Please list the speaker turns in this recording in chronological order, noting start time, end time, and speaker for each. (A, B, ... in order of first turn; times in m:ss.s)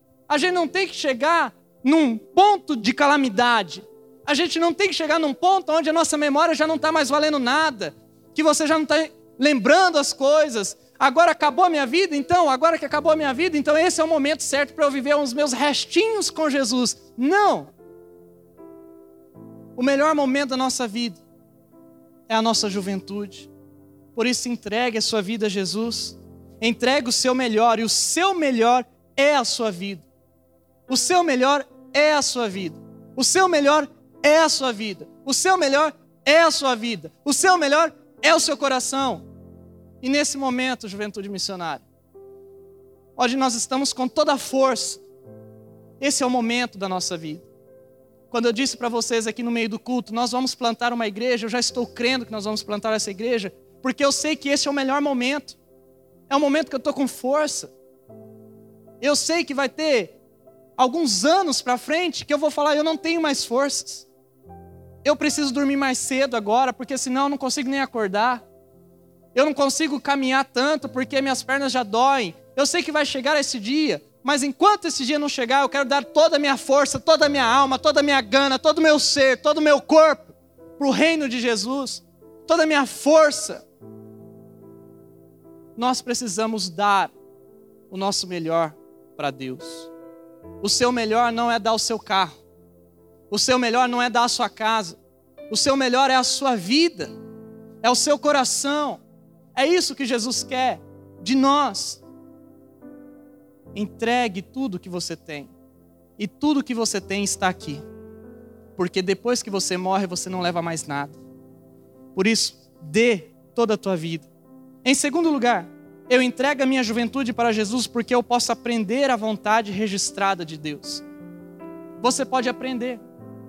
0:00.3-0:17.7 A
0:19.8-0:21.2 A
0:22.3-0:23.5 A
0:24.1-0:30.0 A
0:30.9-0:39.2 A
0:40.0-0:41.8 A
0:43.2-0:45.0 A
0:46.0-0:47.5 A
0:48.3-0:55.6 A
0:56.3-0:57.7 A
0:59.0-1:00.2 A
1:00.8-1:04.1 A
1:05.0-1:08.4 A
1:09.3-1:23.6 A
1:25.8-1:27.1 A
1:27.9-1:29.9 A
1:30.6-1:32.4 A
1:33.3-1:37.1 A
1:37.8-1:39.0 A
1:39.5-1:42.0 A
1:43.7-1:45.5 A
1:46.2-1:47.8 A
1:48.8-1:51.2 A
1:52.1-1:54.3 A
1:54.8-2:01.0 A
2:02.0-2:03.0 A